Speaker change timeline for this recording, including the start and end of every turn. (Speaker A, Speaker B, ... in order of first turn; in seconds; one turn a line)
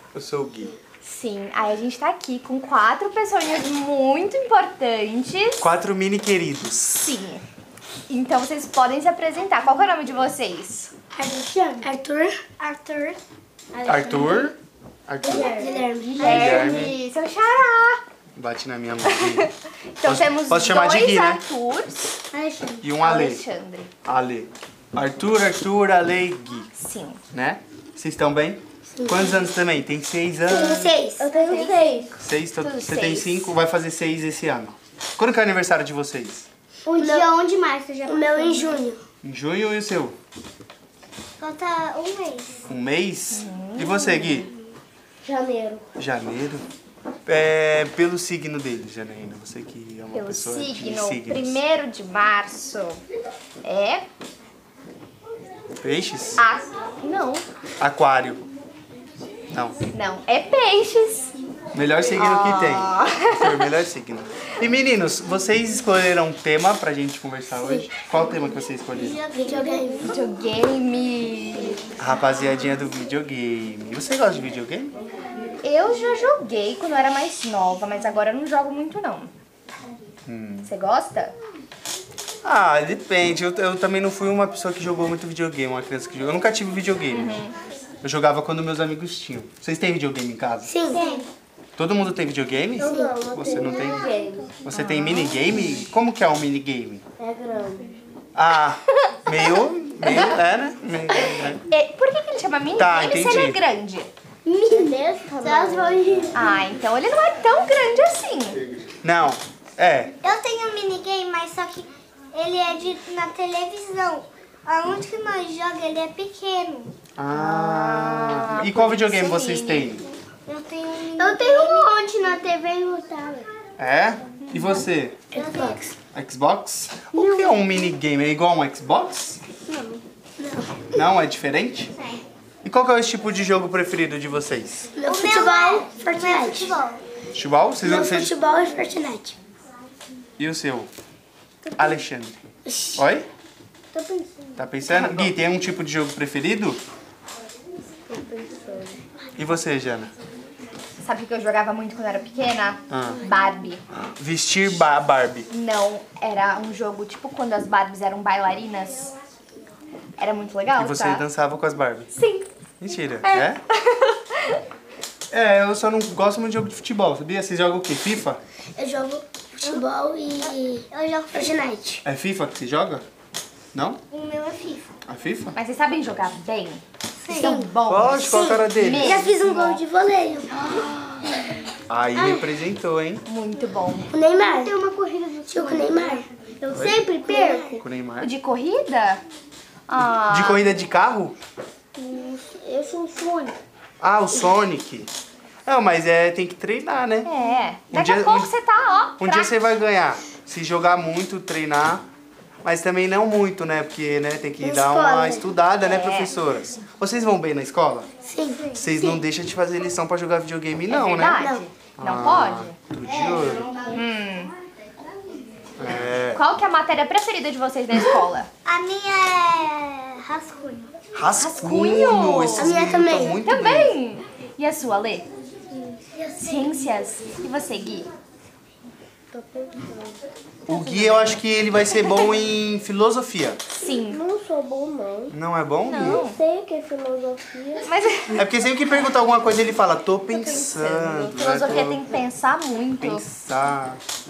Speaker A: 0.1-0.8
Speaker B: 1.0-5.7
Speaker A: 5.6-7.1
Speaker B: 7.0-7.4
Speaker B: 8.1-10.9
Speaker C: 11.1-13.2
Speaker D: 12.6-12.9
Speaker D: 13.7-14.5
Speaker A: 13.8-15.5
Speaker C: 15.2-16.7
Speaker D: 15.2-16.4
Speaker B: 16.1-18.0
Speaker A: 16.2-16.9
Speaker A: 18.4-19.4
Speaker B: 19.0-22.2
Speaker A: 20.0-21.4
Speaker C: 22.3-22.8
Speaker A: 22.8-23.4
Speaker B: 23.0-23.9
Speaker A: 24.0-26.7
Speaker B: 26.7-27.2
Speaker A: 27.3-30.9
Speaker C: 28.9-29.3
Speaker C: 30.5-32.1
Speaker B: 31.2-33.5
Speaker A: 32.2-36.5
Speaker D: 36.9-38.9
Speaker C: 36.9-37.3
Speaker C: 38.1-39.0
Speaker A: 39.2-40.2
Speaker D: 41.4-42.6
Speaker A: 42.7-44.5
Speaker B: 43.3-44.5
Speaker C: 45.2-45.9
Speaker A: 46.0-46.6
Speaker A: 47.2-51.6
Speaker B: 50.1-53.0
Speaker B: 53.6-54.0
Speaker A: 55.8-56.4
Speaker B: 56.4-57.4
Speaker A: 57.8-58.5
Speaker A: 59.5-59.8
Speaker B: 59.9-61.3
Speaker A: 61.7-69.2
Speaker B: 62.1-63.7
Speaker C: 69.0-70.1
Speaker D: 69.5-70.1
Speaker B: 70.0-71.8
Speaker A: 72.0-74.9
Speaker B: 75.6-79.3
Speaker A: 80.3-80.7
Speaker B: 80.6-81.3
Speaker A: 82.4-87.4
Speaker B: 87.1-87.5
Speaker A: 88.0-90.7
Speaker C: 90.6-91.2
Speaker D: 90.9-91.3
Speaker A: 91.8-94.1
Speaker C: 92.8-94.5
Speaker D: 92.9-93.2
Speaker A: 94.6-97.0
Speaker B: 94.7-95.9
Speaker C: 97.2-97.9
Speaker A: 98.3-101.6
Speaker B: 99.0-99.5
Speaker B: 100.0-100.4
Speaker B: 101.1-104.1
Speaker A: 102.7-103.6
Speaker C: 104.5-106.5
Speaker D: 104.6-106.2
Speaker B: 106.3-108.6
Speaker A: 109.0-110.2
Speaker D: 110.2-116.9
Speaker A: 117.2-120.0
Speaker B: 117.3-120.0
Speaker D: 120.5-122.1
Speaker C: 121.2-123.5
Speaker A: 123.8-125.2
Speaker B: 124.4-124.8
Speaker D: 125.3-125.9
Speaker C: 125.3-125.9
Speaker A: 126.1-129.4
Speaker C: 127.1-127.5
Speaker C: 129.7-130.9
Speaker A: 130.9-131.9
Speaker A: 132.6-134.9
Speaker C: 134.9-136.8
Speaker D: 135.0-137.0
Speaker A: 137.3-138.3
Speaker C: 137.8-139.4
Speaker A: 140.4-140.9
Speaker C: 141.7-142.0
Speaker A: 141.8-142.4
Speaker C: 142.7-143.0
Speaker A: 142.9-143.3
Speaker C: 143.9-144.5
Speaker A: 144.6-146.8
Speaker B: 144.9-145.3
Speaker C: 148.1-149.0
Speaker A: 149.3-150.1
Speaker B: 151.0-153.8
Speaker A: 152.9-153.3
Speaker A: 154.2-155.5
Speaker B: 155.5-159.1
Speaker B: 160.2-161.2
Speaker A: 160.7-162.1
Speaker B: 162.2-162.5
Speaker A: 162.8-163.6
Speaker B: 163.2-164.6
Speaker A: 165.3-168.4
Speaker C: 168.8-172.0
Speaker D: 170.9-171.3
Speaker A: 172.0-173.1
Speaker A: 173.7-174.0
Speaker D: 174.1-174.9
Speaker A: 175.1-175.5
Speaker B: 175.5-179.8
Speaker D: 177.2-177.7
Speaker C: 177.3-180.7
Speaker A: 177.7-179.3
Speaker B: 180.6-181.2
Speaker A: 181.9-183.2
Speaker C: 182.2-182.4
Speaker B: 183.2-184.1
Speaker C: 184.1-184.7
Speaker D: 184.3-186.3
Speaker C: 185.5-187.8
Speaker A: 186.7-187.0
Speaker D: 187.1-187.8
Speaker A: 187.8-188.3
Speaker B: 188.2-189.2
Speaker B: 189.9-190.7
Speaker A: 190.3-191.3
Speaker C: 191.9-193.6
Speaker A: 194.0-195.1
Speaker A: 195.6-197.3
Speaker B: 197.2-199.6
Speaker A: 197.9-198.5
Speaker A: 199.2-202.1
Speaker A: 202.6-208.1
Speaker C: 204.6-205.5
Speaker B: 205.7-206.3
Speaker C: 208.2-209.2
Speaker A: 208.7-213.8
Speaker B: 210.9-212.8
Speaker C: 211.4-211.6
Speaker B: 213.9-214.5
Speaker A: 215.8-216.4
Speaker B: 216.3-218.5
Speaker D: 218.6-220.9
Speaker A: 221.1-223.9
Speaker B: 221.3-225.2
Speaker C: 222.6-223.4
Speaker D: 226.1-226.9
Speaker B: 226.4-228.1
Speaker C: 229.3-230.2
Speaker A: 230.7-233.6
Speaker B: 230.7-232.4
Speaker B: 233.7-234.2
Speaker C: 234.1-235.3
Speaker A: 235.3-236.2
Speaker B: 235.8-236.4
Speaker C: 236.0-237.9
Speaker B: 237.8-238.5
Speaker A: 238.3-242.1
Speaker B: 240.4-243.2
Speaker A: 243.0-244.0